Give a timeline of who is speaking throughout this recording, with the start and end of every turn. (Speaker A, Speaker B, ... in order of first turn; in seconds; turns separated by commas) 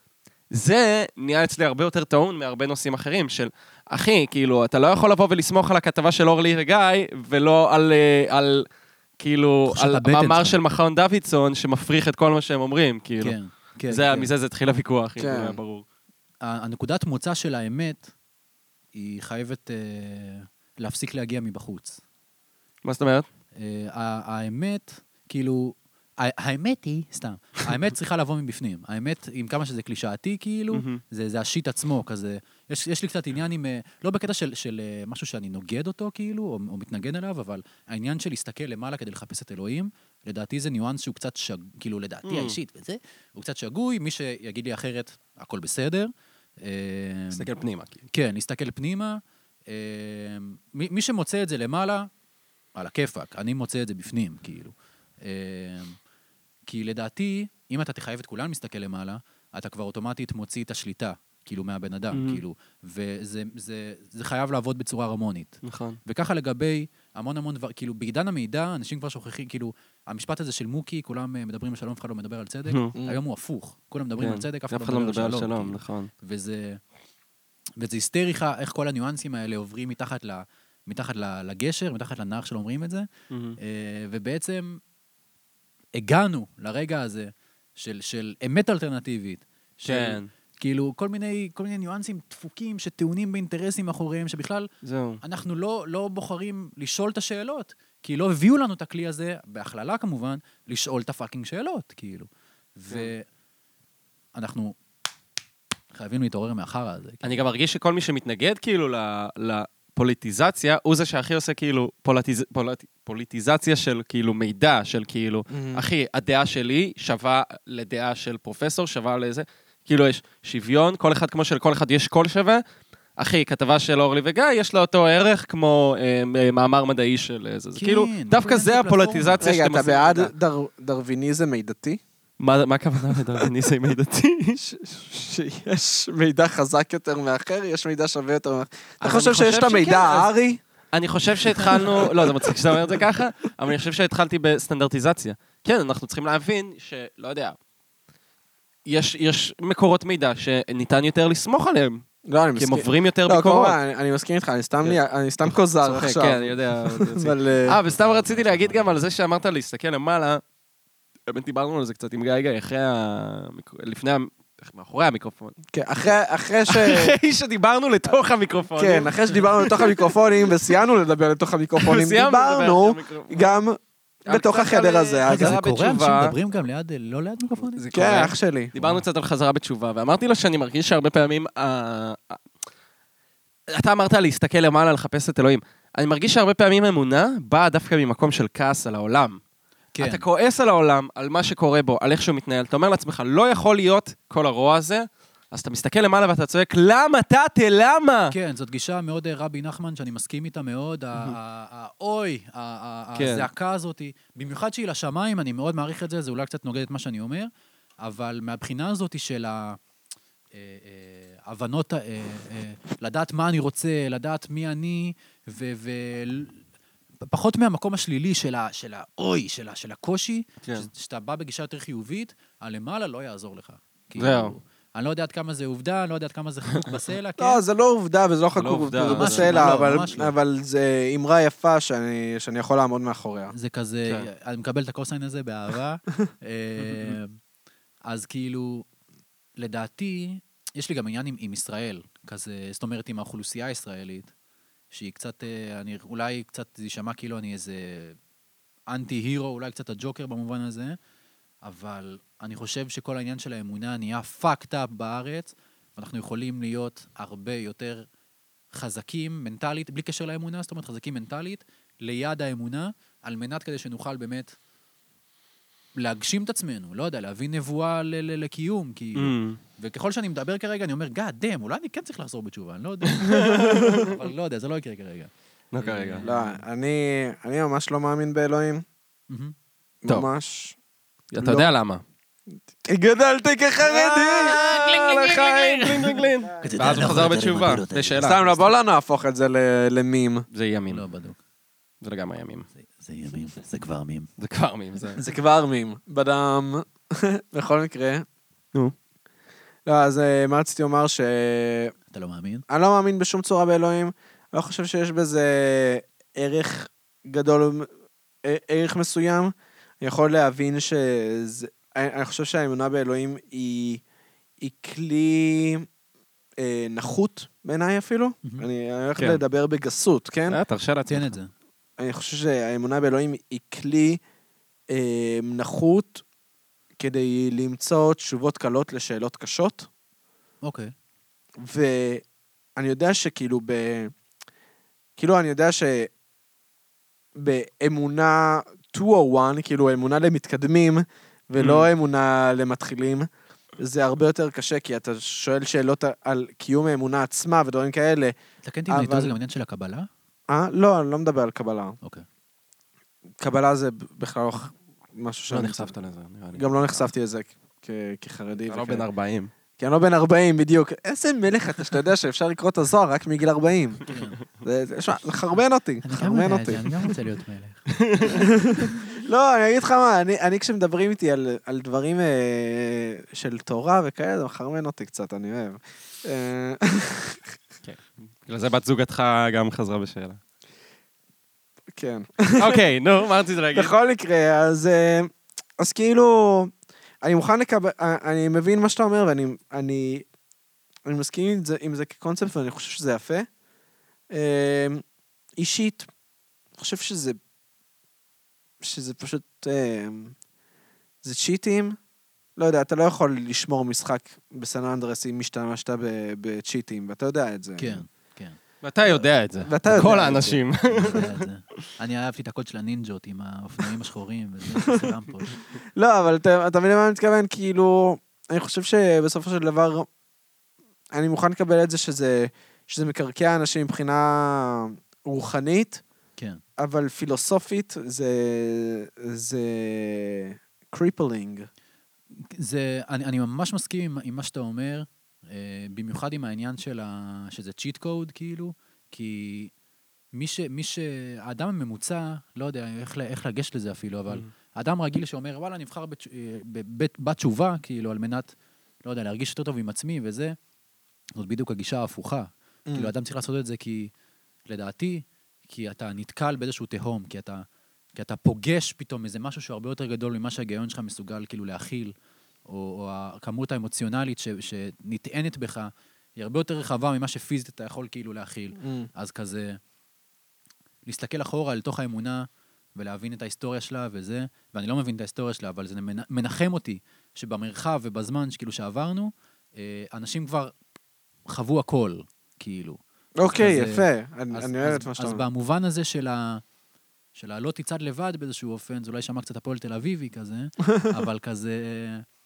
Speaker A: 0.5-8.7, Speaker A: 9.2-13.4, Speaker B: 9.7-10.6, Speaker B: 13.2-14.3, Speaker A: 13.9-15.8, Speaker C: 15.2-15.6, Speaker B: 16.4-18.1, Speaker B: 18.9-22.0, Speaker A: 22.8-23.3, Speaker B: 23.6-47.5, Speaker A: 30.7-31.0, Speaker A: 42.3-42.6, Speaker A: 47.3-48.0, Speaker B: 48.1-52.1, Speaker B: 52.8-56.0, Speaker B: 56.7-76.8, Speaker A: 62.1-62.4, Speaker A: 65.6-66.0, Speaker A: 72.7-73.0, Speaker A: 74.2-76.1, Speaker B: 77.8-83.1, Speaker A: 83.3-83.6, Speaker B: 83.6-84.8, Speaker B: 86.0-94.7, Speaker A: 89.9-90.3, Speaker A: 94.8-95.2, Speaker B: 95.2-103.3, Speaker B: 104.4-104.8, Speaker B: 105.9-107.3, Speaker A: 107.2-122.6, Speaker C: 115.5-115.8, Speaker A: 123.2-130.3, Speaker B: 127.8-129.4, Speaker C: 129.4-132.0, Speaker A: 132.4-134.6, Speaker C: 134.6-140.6, Speaker A: 139.0-140.3, Speaker A: 140.9-147.6, Speaker C: 141.8-142.3, Speaker A: 148.9-152.0, Speaker C: 152.3-157.8, Speaker A: 152.6-153.8, Speaker A: 154.8-160.4, Speaker B: 157.8-159.0, Speaker A: 161.3-165.6, Speaker C: 165.7-167.2, Speaker A: 166.7-170.1, Speaker C: 168.8-175.6, Speaker A: 171.8-173.5, Speaker A: 174.3-176.4, Speaker B: 175.3-177.8, Speaker A: 177.8-182.4, Speaker C: 177.9-178.7, Speaker B: 178.8-179.0, Speaker A: 183.7-189.4, Speaker B: 189.9-190.2, Speaker A: 190.0-198.3, Speaker B: 198.3-207.5, Speaker A: 203.2-203.5, Speaker B: 208.0-209.8, Speaker B: 210.5-216.6, Speaker B: 217.2-227.6, Speaker A: 224.2-224.5, Speaker C: 227.4-233.5, Speaker A: 228.6-229.7, Speaker B: 229.1-230.3, Speaker B: 233.5-237.4, Speaker A: 236.8-237.2, Speaker B: 238.1-238.9, Speaker B: 239.6-244.3, Speaker B: 244.9-248.2, Speaker B: 248.9-251.0, Speaker B: 251.6-258.1, Speaker B: 258.7-264.5, Speaker B: 266.0-276.6, Speaker A: 269.1-269.6, Speaker A: 273.1-274.1, Speaker C: 273.3-274.1, Speaker A: 275.7-276.2, Speaker C: 276.2-278.9, Speaker B: 279.3-279.6, Speaker C: 280.0-280.8, Speaker A: 281.3-282.0, Speaker C: 281.4-281.7, Speaker C: 282.7-286.5, Speaker A: 283.8-288.6, Speaker B: 286.6-288.7, Speaker C: 288.2-290.4, Speaker A: 290.5-291.0, Speaker B: 290.9-291.4, Speaker A: 292.0-292.7, Speaker B: 293.0-294.3, Speaker A: 294.4-295.2, Speaker C: 295.2-298.2, Speaker C: 299.9-301.9, Speaker B: 302.1-302.6, Speaker C: 302.7-307.9, Speaker C: 308.4-314.0, Speaker C: 314.6-315.9, Speaker C: 316.6-320.6, Speaker A: 320.5-321.4, Speaker B: 321.1-321.5, Speaker C: 322.0-324.2, Speaker C: 324.9-326.2, Speaker C: 327.0-329.9, Speaker B: 330.6-330.9, Speaker C: 331.6-332.2, Speaker C: 332.8-334.1, Speaker C: 335.2-336.1, Speaker C: 337.4-343.3, Speaker A: 341.6-341.9, Speaker C: 343.8-348.4, Speaker B: 348.6-350.1, Speaker C: 348.9-349.4, Speaker C: 350.5-352.0, Speaker C: 353.4-355.9, Speaker A: 355.5-357.1, Speaker C: 356.5-359.1, Speaker A: 358.7-359.5, Speaker C: 359.8-364.1, Speaker B: 364.1-364.4, Speaker C: 364.6-366.9, Speaker B: 366.0-368.5, Speaker A: 368.0-368.4, Speaker C: 368.2-377.4, Speaker A: 377.9-380.4, Speaker C: 381.9-382.8, Speaker A: 382.6-383.9, Speaker C: 383.7-386.7, Speaker C: 387.2-390.3, Speaker C: 391.1-393.5, Speaker C: 394.3-395.0, Speaker C: 395.6-396.1, Speaker C: 396.8-397.4, Speaker C: 398.8-400.4, Speaker C: 401.2-402.0, Speaker C: 402.6-408.0, Speaker B: 407.8-408.6, Speaker A: 408.8-411.5, Speaker C: 409.1-410.7, Speaker B: 409.9-410.4, Speaker B: 410.9-415.6, Speaker C: 416.0-420.1, Speaker C: 421.1-426.0, Speaker C: 426.8-431.7, Speaker B: 432.4-439.7, Speaker B: 440.3-448.5, Speaker B: 449.0-450.6, Speaker B: 451.4-454.1, Speaker C: 452.9-453.1, Speaker B: 454.7-457.6, Speaker B: 458.2-462.1, Speaker B: 462.7-469.8, Speaker C: 468.8-469.1, Speaker B: 471.1-480.7, Speaker B: 481.5-486.6, Speaker C: 483.4-485.4, Speaker B: 487.4-492.3